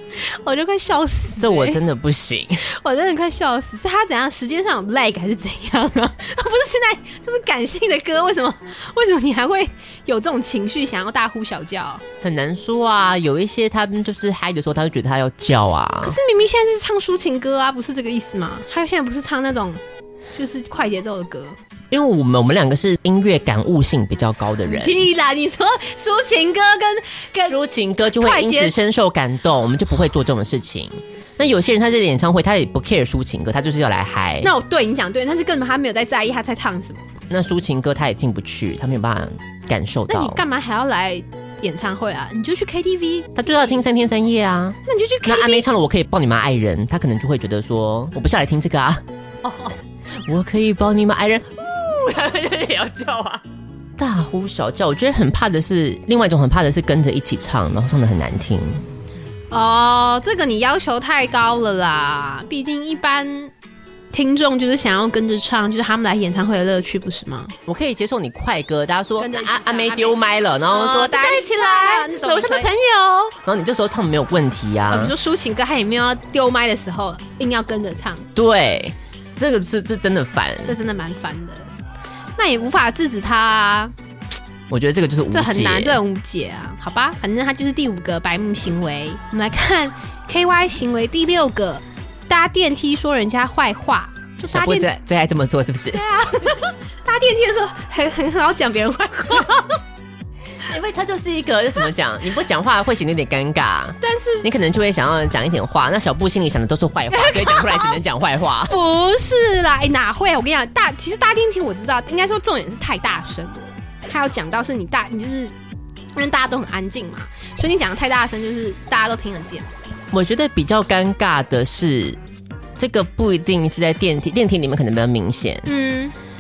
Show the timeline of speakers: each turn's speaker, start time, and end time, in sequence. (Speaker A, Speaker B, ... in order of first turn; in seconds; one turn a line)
Speaker A: 0.3-1.8
Speaker B: 1.4-2.6
Speaker A: 2.6-12.0
Speaker B: 12.2-16.2
Speaker A: 16.0-19.8
Speaker A: 20.3-21.6
Speaker B: 21.9-25.0
Speaker A: 24.6-27.6
Speaker B: 27.4-34.5
Speaker A: 28.1-28.7
Speaker A: 34.4-37.1
Speaker B: 37.3-40.4
Speaker A: 40.1-43.7
Speaker B: 43.4-49.0
Speaker A: 44.8-45.6
Speaker A: 49.4-49.8
Speaker B: 50.1-53.4
Speaker B: 54.0-58.9
Speaker A: 59.5-63.5
Speaker A: 64.1-67.5
Speaker B: 67.7-75.1
Speaker A: 69.2-72.7
Speaker A: 74.9-78.2
Speaker B: 78.3-80.8
Speaker A: 80.6-81.7
Speaker A: 82.4-83.9
Speaker B: 84.7-86.0
Speaker A: 85.3-94.9
Speaker B: 94.5-96.0
Speaker A: 95.9-99.8
Speaker B: 100.6-108.7
Speaker A: 104.0-104.5
Speaker A: 107.1-108.0
Speaker A: 108.7-115.5
Speaker A: 116.1-119.7
Speaker B: 120.1-122.2
Speaker B: 122.8-125.7
Speaker A: 125.7-126.1